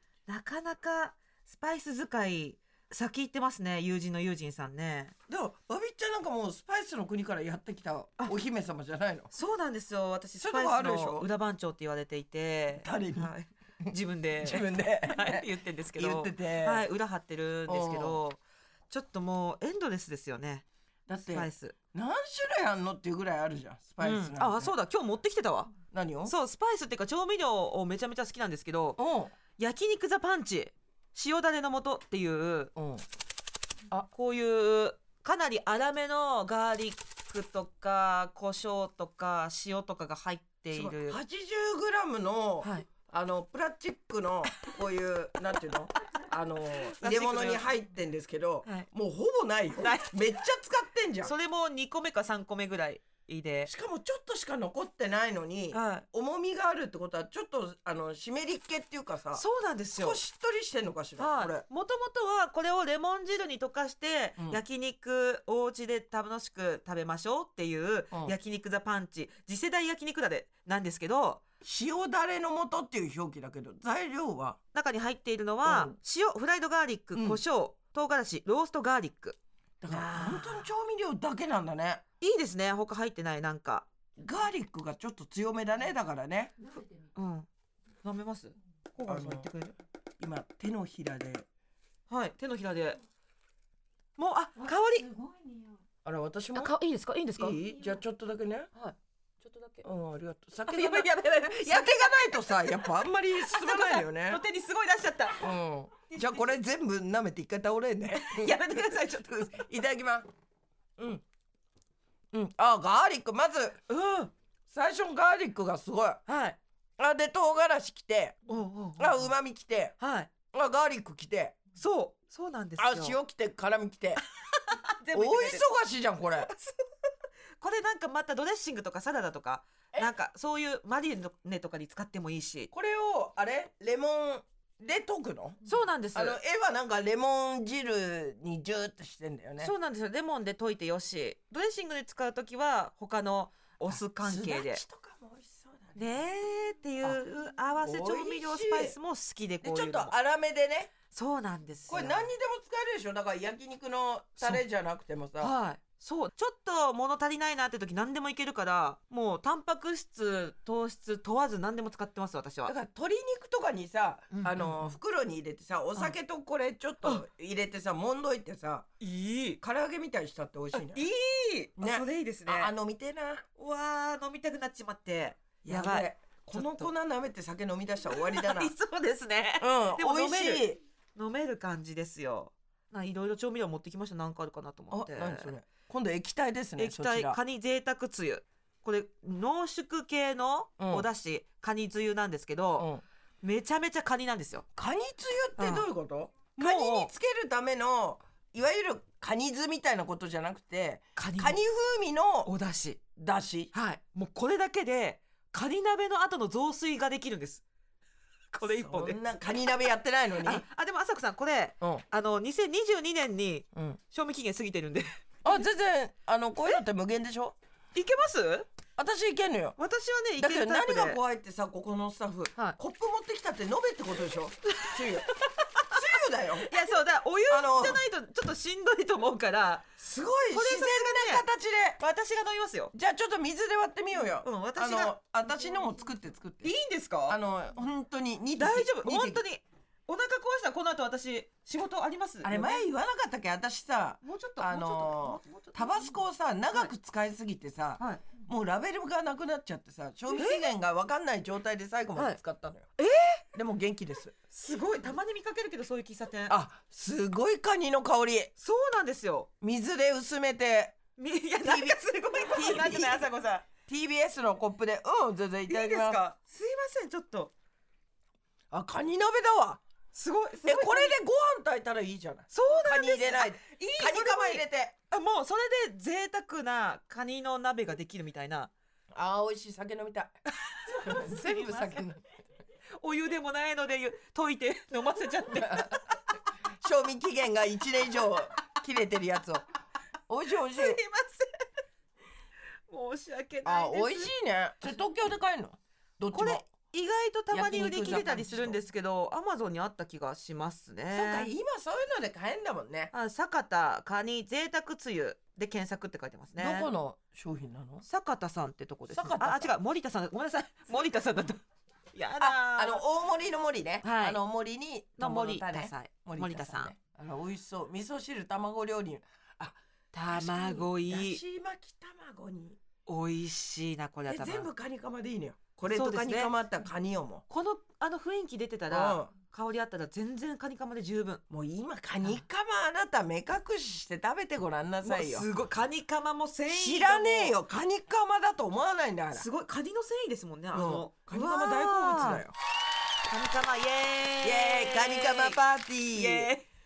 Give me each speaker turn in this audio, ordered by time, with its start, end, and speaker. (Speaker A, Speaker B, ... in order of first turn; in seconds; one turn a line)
Speaker A: 0.3-5.1
Speaker B: 5.3-9.3
Speaker A: 9.3-20.6
Speaker B: 10.4-11.3
Speaker B: 12.8-13.3
Speaker B: 13.8-16.8
Speaker B: 17.7-18.2
Speaker B: 21.1-24.7
Speaker A: 21.3-21.7
Speaker A: 24.0-29.0
Speaker B: 25.9-26.3
Speaker B: 29.0-29.3
Speaker A: 29.6-32.7
Speaker B: 32.8-33.0
Speaker A: 33.9-41.2
Speaker B: 40.7-51.3
Speaker A: 42.6-42.9
Speaker A: 47.0-47.7
Speaker A: 49.8-50.2
Speaker A: 51.2-53.7
Speaker B: 53.6-59.4
Speaker A: 55.7-56.0
Speaker A: 59.3-60.2
Speaker B: 59.9-61.6
Speaker A: 61.2-71.4
Speaker B: 71.6-74.6
Speaker A: 74.7-80.7
Speaker B: 75.6-76.0
Speaker B: 77.1-77.4
Speaker B: 79.8-82.0
Speaker A: 82.2-83.9
Speaker B: 84.2-86.5
Speaker A: 87.1-87.5
Speaker A: 88.0-89.7
Speaker B: 89.0-89.5
Speaker B: 90.2-91.5
Speaker A: 92.1-93.0
Speaker A: 94.2-95.2
Speaker B: 96.0-96.7
Speaker A: 96.5-97.6
Speaker B: 97.4-98.7
Speaker A: 98.7-99.8
Speaker B: 99.8-104.4
Speaker A: 100.7-102.7
Speaker A: 103.3-105.5
Speaker B: 105.4-110.3
Speaker A: 106.1-106.5
Speaker A: 108.1-109.6
Speaker B: 111.0-111.2
Speaker B: 112.3-113.8
Speaker A: 113.9-114.3
Speaker B: 114.7-116.2
Speaker A: 116.3-116.6
Speaker B: 117.0-118.4
Speaker A: 118.5-119.3
Speaker B: 119.0-120.0
Speaker A: 120.0-120.3
Speaker B: 120.5-121.6
Speaker A: 121.8-123.2
Speaker B: 122.8-124.2
Speaker A: 124.5-125.7
Speaker B: 125.1-126.5
Speaker A: 126.5-126.8
Speaker A: 127.6-132.7
Speaker B: 132.7-135.6
Speaker A: 135.7-136.4
Speaker B: 136.1-139.7
Speaker A: 139.6-144.8
Speaker B: 143.9-146.1
Speaker A: 145.9-150.1
Speaker B: 147.8-148.9
Speaker B: 149.6-150.9
Speaker A: 151.1-152.3
Speaker B: 151.9-155.5
Speaker A: 155.4-162.7
Speaker B: 162.7-168.9
Speaker A: 164.3-164.9
Speaker A: 169.0-169.6
Speaker B: 169.6-171.0
Speaker A: 170.7-172.7
Speaker B: 171.8-173.4
Speaker A: 173.6-176.9
Speaker B: 175.6-178.7
Speaker A: 178.1-185.5
Speaker B: 179.6-180.8
Speaker B: 184.9-187.4
Speaker A: 186.8-192.9
Speaker B: 190.8-191.1
Speaker B: 192.8-193.0
Speaker A: 193.4-194.7
Speaker B: 194.8-202.5
Speaker A: 195.6-195.9
Speaker A: 196.6-197.1
Speaker A: 201.2-201.6
Speaker A: 202.4-203.0
Speaker B: 203.2-203.7
Speaker A: 203.7-207.6
Speaker A: 208.5-209.2
Speaker B: 208.6-210.6
Speaker A: 210.4-215.2
Speaker B: 215.4-217.6
Speaker A: 217.9-218.7
Speaker B: 219.0-219.8
Speaker A: 219.8-221.2
Speaker B: 220.4-225.3
Speaker A: 224.7-225.9
Speaker B: 225.8-226.7
Speaker A: 226.7-230.0
Speaker B: 227.5-228.0
Speaker B: 230.0-232.0
Speaker A: 230.5-231.4
Speaker A: 232.0-232.9
Speaker B: 232.9-236.7
Speaker A: 234.4-235.1
Speaker A: 236.6-237.4
Speaker B: 237.3-239.4
Speaker A: 238.6-242.8
Speaker B: 242.4-252.9
Speaker A: 244.2-246.1
Speaker A: 248.0-248.2
Speaker A: 250.3-250.7
Speaker A: 253.0-253.4
Speaker B: 253.5-254.3
Speaker A: 254.5-256.6
Speaker B: 256.5-258.5
Speaker A: 258.6-259.5
Speaker B: 259.6-261.0
Speaker A: 261.2-263.6
Speaker B: 261.6-263.2
Speaker B: 263.9-266.2
Speaker A: 265.7-267.5
Speaker B: 268.7-269.8
Speaker A: 270.1-271.1
Speaker B: 270.6-274.9
Speaker A: 272.5-278.7
Speaker B: 279.1-280.3
Speaker A: 280.7-282.0
Speaker B: 281.0-282.3
Speaker A: 283.0-286.1
Speaker B: 286.8-289.6
Speaker B: 290.3-291.0
Speaker A: 290.7-291.5
Speaker A: 292.9-294.3
Speaker B: 293.6-296.6
Speaker A: 296.3-301.5
Speaker B: 297.5-298.8
Speaker B: 301.1-303.1
Speaker A: 303.1-306.9
Speaker B: 306.6-308.0
Speaker A: 308.0-311.6
Speaker B: 309.1-309.7
Speaker A: 312.1-313.0
Speaker B: 312.4-319.8
Speaker A: 314.0-314.4
Speaker A: 315.2-316.9
Speaker A: 320.1-321.4
Speaker B: 320.3-322.8
Speaker A: 323.1-324.7
Speaker B: 324.3-327.4
Speaker A: 325.9-326.5
Speaker A: 327.5-331.4
Speaker B: 328.9-329.3
Speaker B: 331.5-335.4
Speaker A: 335.0-337.6
Speaker B: 336.7-339.4
Speaker A: 339.3-342.4
Speaker B: 340.7-342.5
Speaker A: 343.3-346.7
Speaker B: 344.4-346.5